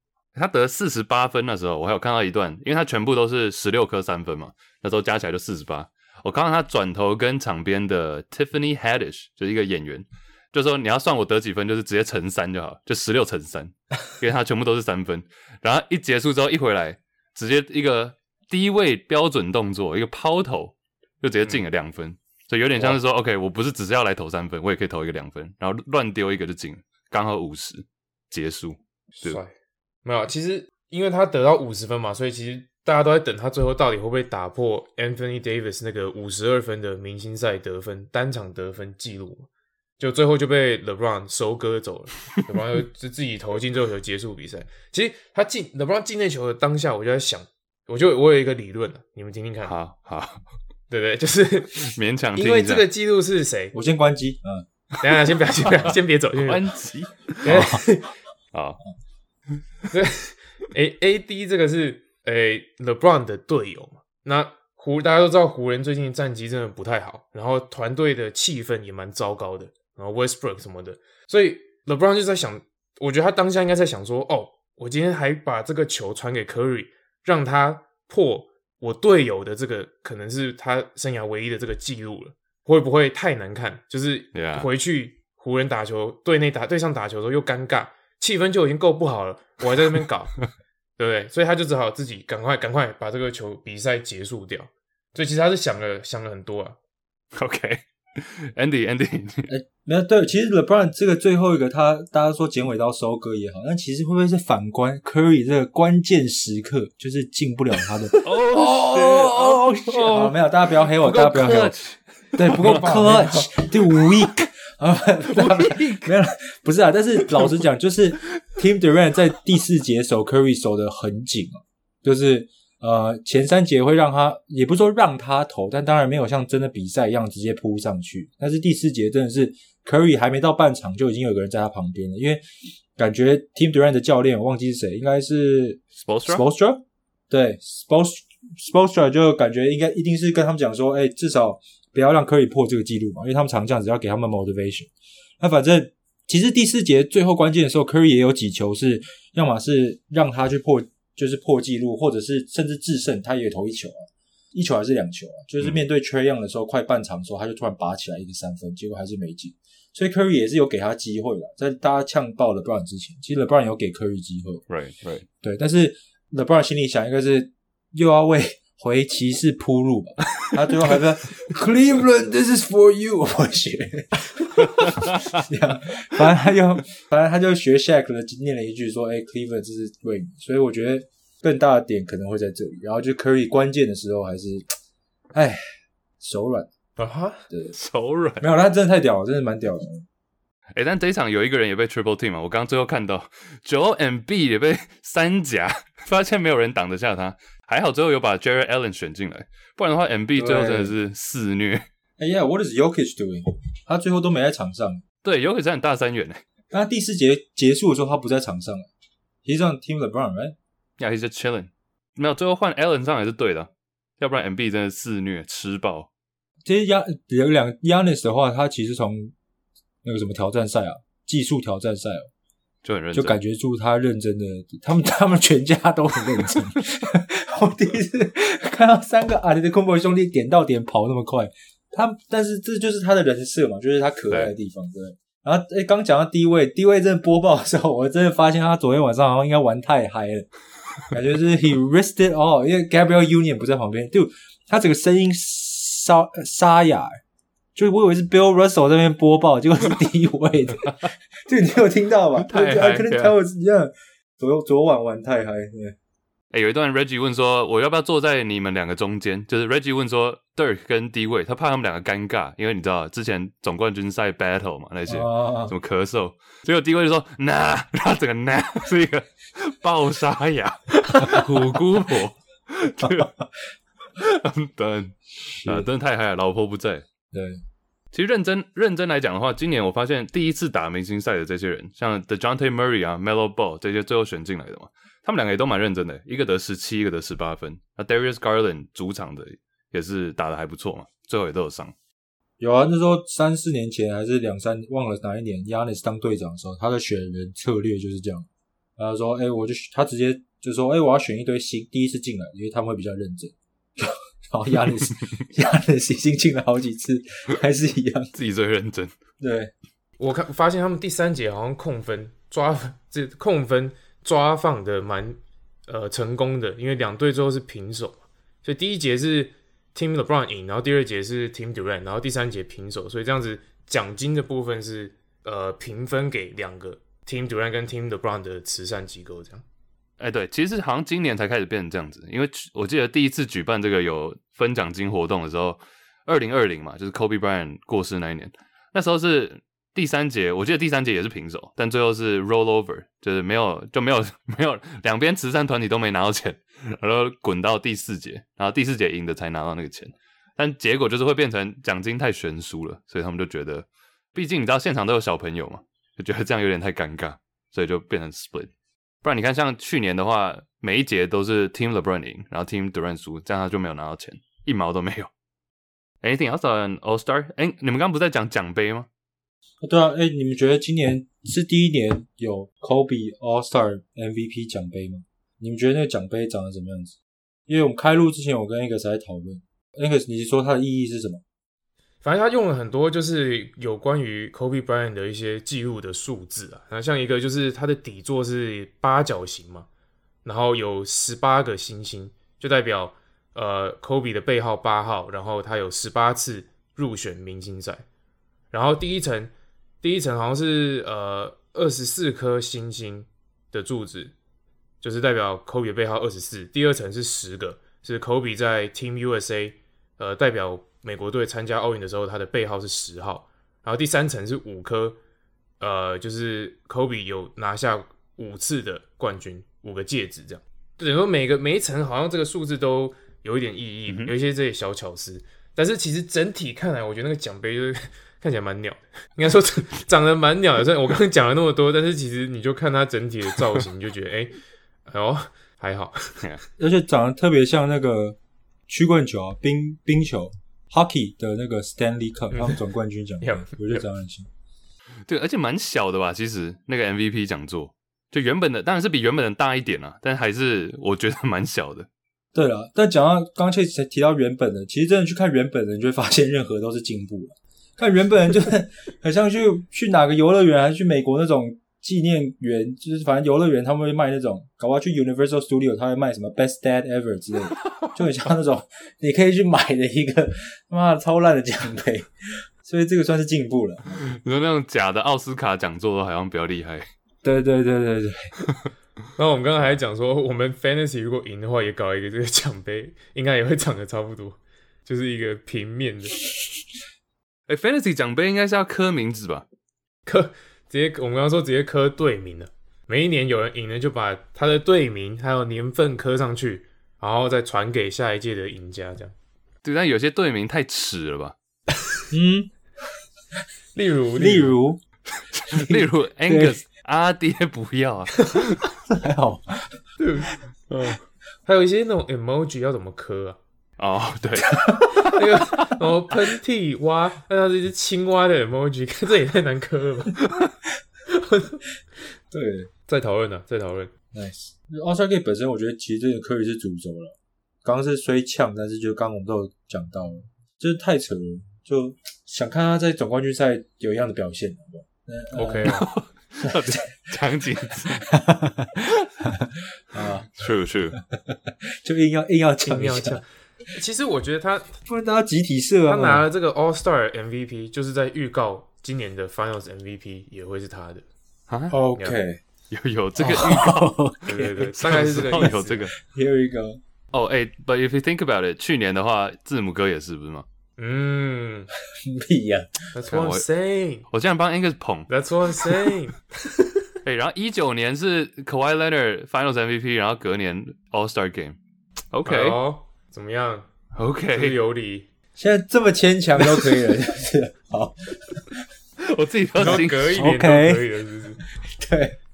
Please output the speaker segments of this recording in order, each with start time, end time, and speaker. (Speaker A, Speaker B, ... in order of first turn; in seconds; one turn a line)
Speaker A: 0.3-29.4
Speaker B: 29.2-29.5
Speaker B: 30.1-39.5
Speaker B: 40.0-49.7
Speaker A: 49.6-50.4
Speaker B: 50.9-53.8
Speaker A: 51.9-52.9
Speaker C: 53.7-54.7
Speaker B: 55.0-56.7
Speaker A: 55.8-57.7
Speaker B: 57.4-58.1
Speaker C: 57.5-57.8
Speaker A: 58.5-58.8
Speaker B: 59.9-90.4
Speaker A: 84.3-84.7
Speaker B: 91.0-96.8
Speaker A: 97.3-99.5
Speaker C: 99.5-111.8
Speaker A: 108.2-110.3
Speaker A: 111.0-112.8
Speaker C: 112.3-132.4
Speaker B: 112.5-113.6
Speaker A: 115.3-116.1
Speaker C: 133.0-164.7
Speaker A: 136.0-136.4
Speaker A: 164.7-165.2
Speaker C: 165.4-184.7
Speaker A: 174.6-175.4
Speaker C: 185.3-185.6
Speaker C: 186.2-186.7
Speaker B: 187.0-187.4
Speaker A: 187.7-188.5
Speaker C: 188.4-190.1
Speaker A: 190.8-201.8
Speaker C: 200.4-200.9
Speaker C: 202.2-205.0
Speaker A: 205.2-206.4
Speaker C: 206.7-208.9
Speaker C: 209.4-210.6
Speaker A: 211.0-216.1
Speaker C: 216.7-219.3
Speaker C: 220.0-222.3
Speaker A: 222.8-223.4
Speaker C: 223.1-240.5
Speaker C: 241.1-247.2
Speaker C: 247.8-256.0
Speaker A: 252.4-253.4
Speaker A: 256.5-273.3
Speaker C: 265.1-265.7
Speaker C: 273.0-273.3
Speaker A: 274.2-277.1
Speaker C: 275.6-275.9
Speaker C: 277.3-277.6
Speaker A: 278.1-291.9
Speaker C: 292.6-308.3
Speaker A: 308.3-309.1
Speaker C: 309.4-309.7
Speaker B: 310.2-329.6
Speaker A: 330.2-358.7
Speaker A: 359.2-365.3
Speaker A: 366.2-369.1
Speaker C: 369.8-377.2
Speaker C: 377.7-381.4
Speaker B: 382.2-389.9
Speaker B: 390.4-398.1
Speaker B: 398.7-404.3
Speaker B: 405.0-415.2
Speaker B: 415.8-436.4
Speaker A: 424.1-424.3
Speaker C: 436.8-444.5
Speaker B: 442.5-442.8
Speaker B: 443.4-444.1
Speaker A: 445.3-452.1
Speaker C: 452.5-472.3
Speaker C: 472.8-474.2
Speaker A: 474.2-477.1
Speaker C: 477.4-478.5
Speaker B: 479.4-486.4
Speaker A: 487.7-489.7
Speaker B: 490.3-499.3
Speaker A: 499.8-501.6
Speaker C: 502.3-502.7
Speaker B: 503.9-504.8
Speaker C: 504.4-505.0
Speaker A: 505.3-508.7
Speaker C: 505.7-506.8
Speaker B: 508.4-508.7
Speaker C: 509.1-510.0
Speaker B: 510.2-510.6
Speaker A: 510.9-511.2
Speaker B: 511.7-513.6
Speaker A: 514.0-516.0
Speaker C: 514.6-515.4
Speaker B: 515.2-520.5
Speaker B: 521.3-521.8
Speaker C: 522.5-522.9
Speaker B: 523.1-524.1
Speaker C: 524.3-536.0
Speaker B: 535.5-536.1
Speaker A: 535.8-538.3
Speaker C: 536.6-537.0
Speaker C: 538.3-540.7
Speaker A: 540.4-541.2
Speaker C: 541.3-543.4
Speaker B: 542.9-545.0
Speaker C: 545.1-546.5
Speaker B: 546.1-551.2
Speaker A: 551.7-552.0
Speaker C: 551.9-552.6
Speaker A: 552.9-554.2
Speaker C: 553.4-557.0
Speaker B: 554.5-556.0
Speaker A: 555.0-556.1
Speaker A: 557.3-560.7
Speaker B: 561.0-561.9
Speaker C: 562.1-563.1
Speaker B: 563.1-564.3
Speaker A: 563.3-563.7
Speaker A: 564.3-565.3
Speaker B: 565.3-566.9
Speaker A: 567.2-571.8
Speaker A: 572.3-572.8
Speaker B: 572.5-573.9
Speaker A: 574.1-574.8
Speaker B: 574.5-575.3
Speaker C: 575.6-578.8
Speaker A: 579.2-580.4
Speaker C: 579.8-581.2
Speaker B: 579.8-581.6
Speaker C: 581.8-582.4